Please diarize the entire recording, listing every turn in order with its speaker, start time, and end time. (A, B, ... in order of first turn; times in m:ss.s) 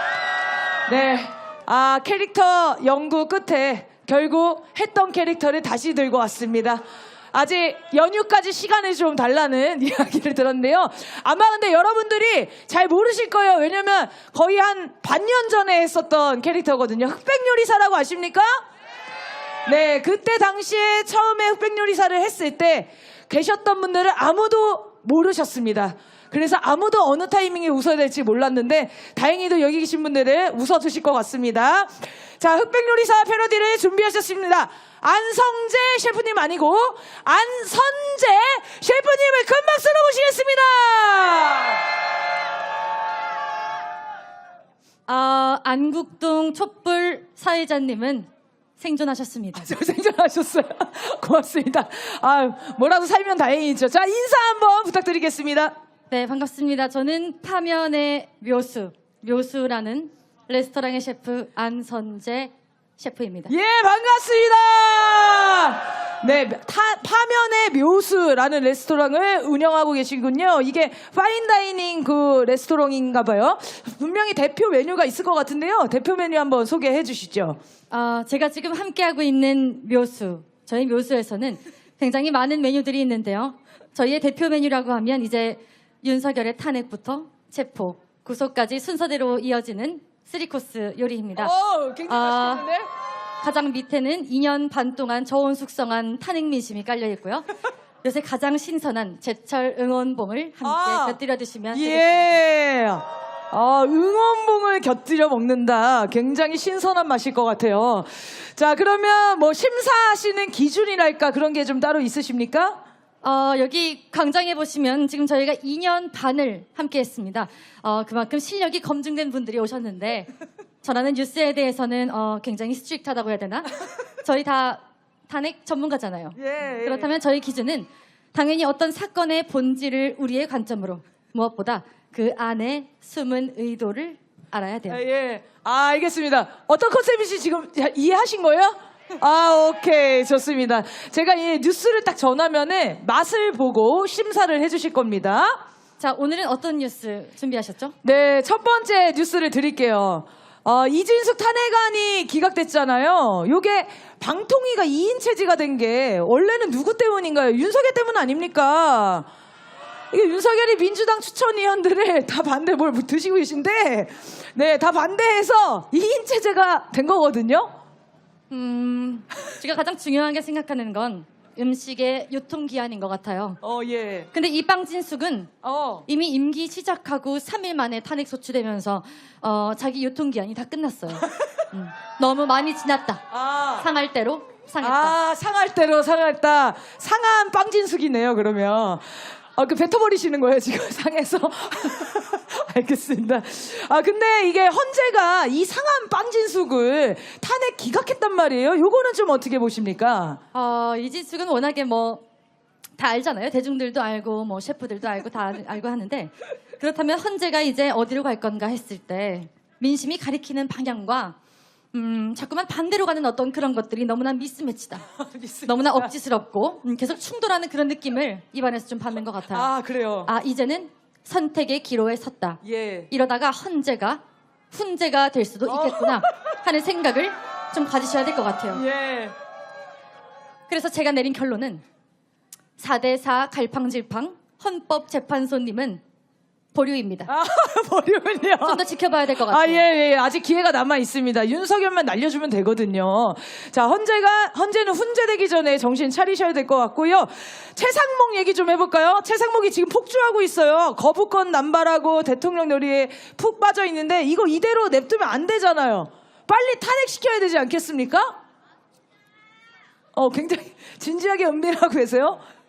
0:00.9-0:06.8 A
0:07.3-0:18.6 A
0:19.6-0:41.8 A
0:45.1-0:49.7 B
0:49.5-0:55.7 A
0:56.1-1:03.5 B
1:03.5-1:17.6 A
1:17.9-1:31.5 B
1:31.4-1:32.9 A
1:32.1-1:32.7 B
1:33.4-1:37.4 B
1:38.0-1:42.4 B
1:40.6-1:41.2 A
1:41.7-1:52.8 A
1:53.2-2:00.3 B
2:00.8-2:15.0 B
2:06.4-2:07.2 A
2:14.9-2:25.6 A
2:26.0-2:27.9 B
2:28.0-2:39.3 A
2:40.1-2:47.7 A
2:48.5-2:53.6 B
2:53.6-2:54.3 A
2:54.3-2:55.5 B
2:55.6-2:56.0 A
2:56.1-3:03.2 B
3:03.3-3:03.8 A
3:03.8-3:05.2 B
3:04.8-3:20.4 A
3:20.5-3:22.2 B
3:23.0-3:31.4 B
3:31.9-3:35.0 B
3:35.2-3:36.1 A
3:35.6-3:39.7 B
3:39.5-3:40.3 A
3:40.2-3:48.8 B
3:42.6-3:43.1 A
3:45.7-3:46.2 A
3:48.7-3:49.3 A
3:50.7-3:51.8 B
3:52.8-3:56.0 B
3:56.7-3:57.3 B
3:57.3-3:58.8 A
3:58.6-3:59.8 B
3:59.4-4:18.4 A
4:20.1-4:22.4 A